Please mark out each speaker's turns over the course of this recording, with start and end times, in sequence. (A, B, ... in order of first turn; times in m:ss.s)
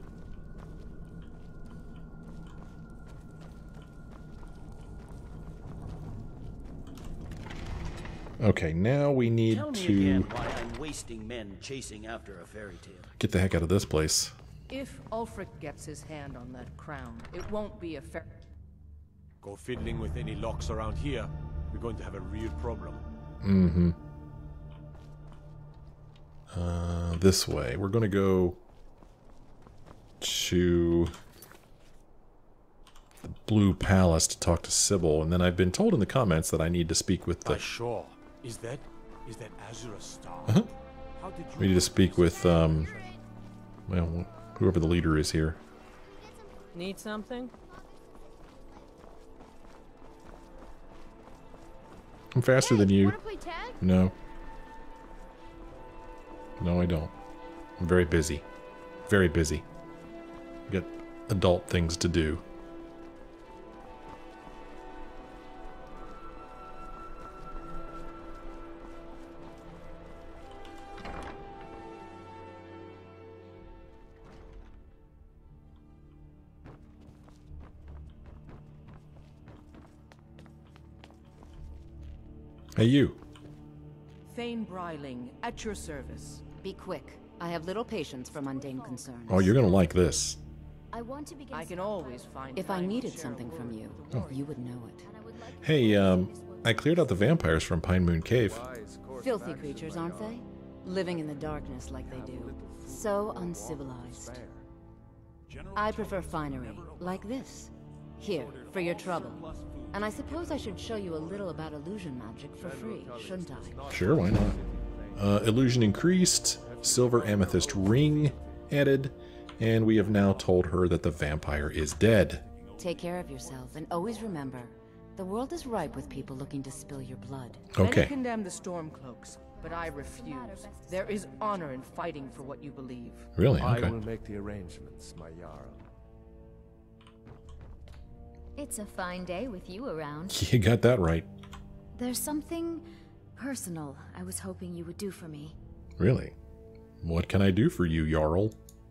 0:08.4-0:10.3 A
0:09.5-0:13.1 B
0:13.2-0:14.3 A
0:14.7-0:18.4 C
0:19.4-0:23.0 D
0:23.4-0:24.0 A
0:26.5-0:28.6 A
0:30.2-0:31.1 A
0:33.2-0:37.7 A
0:37.4-0:40.6 D
0:41.2-0:43.2 D
0:41.6-0:42.9 A
0:43.9-0:45.6 A
0:46.1-0:46.9 E
0:46.7-0:47.5 F
0:52.3-0:53.2 A
0:52.6-0:53.8 E
0:53.8-0:54.1 A
0:56.6-0:57.1 A
0:57.8-0:58.4 A
0:59.1-0:59.6 A
1:00.7-1:02.4 A
1:22.8-1:23.2 A
1:24.3-1:26.4 C
1:26.6-1:29.5 F
1:28.2-1:29.1 G
1:29.3-1:30.4 A
1:30.9-1:33.0 G
1:31.5-1:34.6 C
1:32.6-1:35.1 F
1:35.0-1:37.5 G
1:35.6-1:38.6 A
1:38.3-1:44.6 H
1:39.2-1:44.4 F
1:45.5-1:47.6 D
1:45.7-1:54.0 F
1:46.1-1:47.0 H
1:48.2-1:51.4 D
1:50.1-1:51.7 H
1:52.5-1:55.4 H
1:53.9-1:54.6 A
1:55.2-2:02.4 A
1:56.6-1:58.5 H
1:56.9-1:58.4 D
1:59.9-2:04.6 D
2:02.8-2:07.7 F
2:05.6-2:07.0 G
2:07.7-2:08.1 A
2:07.8-2:13.3 C
2:09.4-2:12.7 G
2:13.4-2:13.9 A
2:13.6-2:15.8 H
2:18.6-2:20.4 G
2:20.3-2:21.3 A
2:22.0-2:22.8 G
2:23.4-2:25.6 G
2:26.0-2:26.3 A
2:27.0-2:28.6 A